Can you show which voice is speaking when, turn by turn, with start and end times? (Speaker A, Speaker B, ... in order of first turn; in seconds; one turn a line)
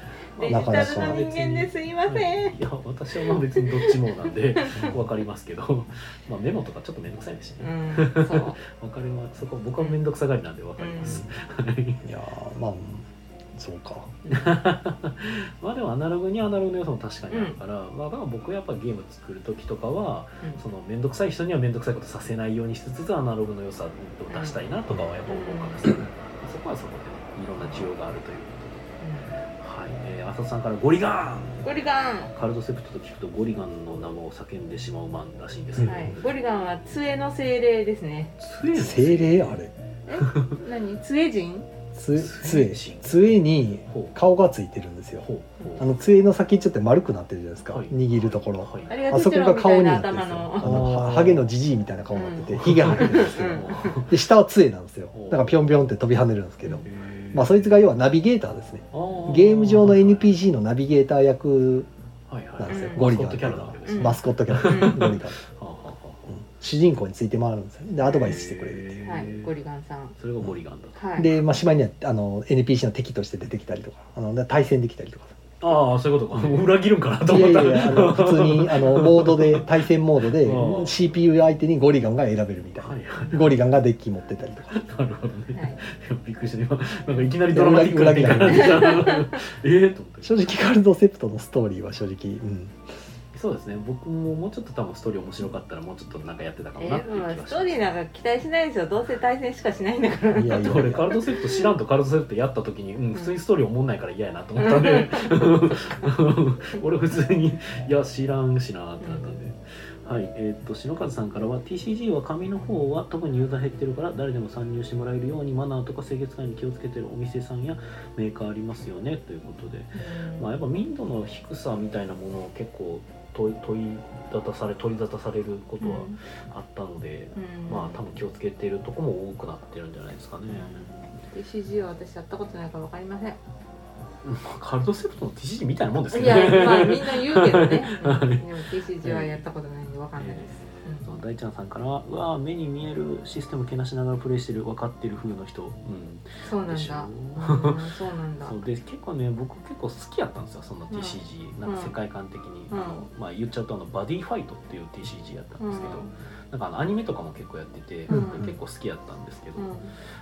Speaker A: 0.3-12.1
Speaker B: 0.4-2.5
Speaker C: 0.5-1.2
Speaker B: 3.5-4.9
Speaker C: 4.8-5.0
Speaker B: 7.6-8.6
Speaker B: 10.8-11.2
Speaker C: 11.0-11.3
Speaker C: 12.0-14.1
Speaker A: 14.3-28.9
Speaker B: 17.3-17.6
Speaker B: 24.3-24.6
Speaker B: 25.2-25.9
Speaker B: 29.0-29.3
Speaker A: 29.6-31.7
Speaker B: 31.6-32.3
Speaker A: 32.3-36.1
Speaker C: 35.8-36.1
Speaker B: 35.8-38.4
Speaker A: 38.4-39.6
Speaker C: 38.7-39.7
Speaker B: 40.1-41.7
Speaker A: 40.2-40.6
Speaker C: 41.9-45.3
Speaker A: 42.1-44.1
Speaker A: 45.2-45.9
Speaker C: 45.8-61.9
Speaker A: 47.6-49.0
Speaker B: 48.9-50.9
Speaker A: 50.6-51.5
Speaker B: 52.1-54.0
Speaker A: 52.6-54.1
Speaker A: 55.1-55.6
Speaker A: 56.8-57.8
Speaker A: 58.9-60.3
Speaker A: 62.3-66.4
Speaker C: 62.6-65.4
Speaker B: 62.7-63.1
Speaker B: 63.9-65.2
Speaker C: 66.3-69.0
Speaker A: 68.0-69.5
Speaker B: 69.0-70.1
Speaker A: 70.2-71.4
Speaker B: 71.0-71.3
Speaker C: 71.2-75.4
Speaker A: 75.6-81.1
Speaker C: 77.2-84.8
Speaker A: 82.8-83.6
Speaker A: 84.7-90.4
Speaker B: 85.5-85.8
Speaker C: 87.5-89.0
Speaker B: 88.5-89.3
Speaker C: 90.2-92.8
Speaker A: 93.3-97.8
Speaker B: 96.8-101.1
Speaker C: 100.3-101.1
Speaker A: 100.6-130.9
Speaker B: 104.6-105.5
Speaker B: 109.0-109.4
Speaker B: 119.9-120.5
Speaker B: 125.8-126.2
Speaker B: 127.3-128.0
Speaker B: 130.5-133.4
Speaker A: 134.2-138.5
Speaker B: 136.1-141.1
Speaker A: 139.0-139.4
Speaker A: 140.2-147.8
Speaker B: 146.4-148.6
Speaker A: 148.4-159.7
Speaker B: 150.9-151.9
Speaker B: 152.7-153.0
Speaker B: 155.6-156.1
Speaker B: 158.1-158.5
Speaker C: 158.1-158.5
Speaker B: 159.6-159.9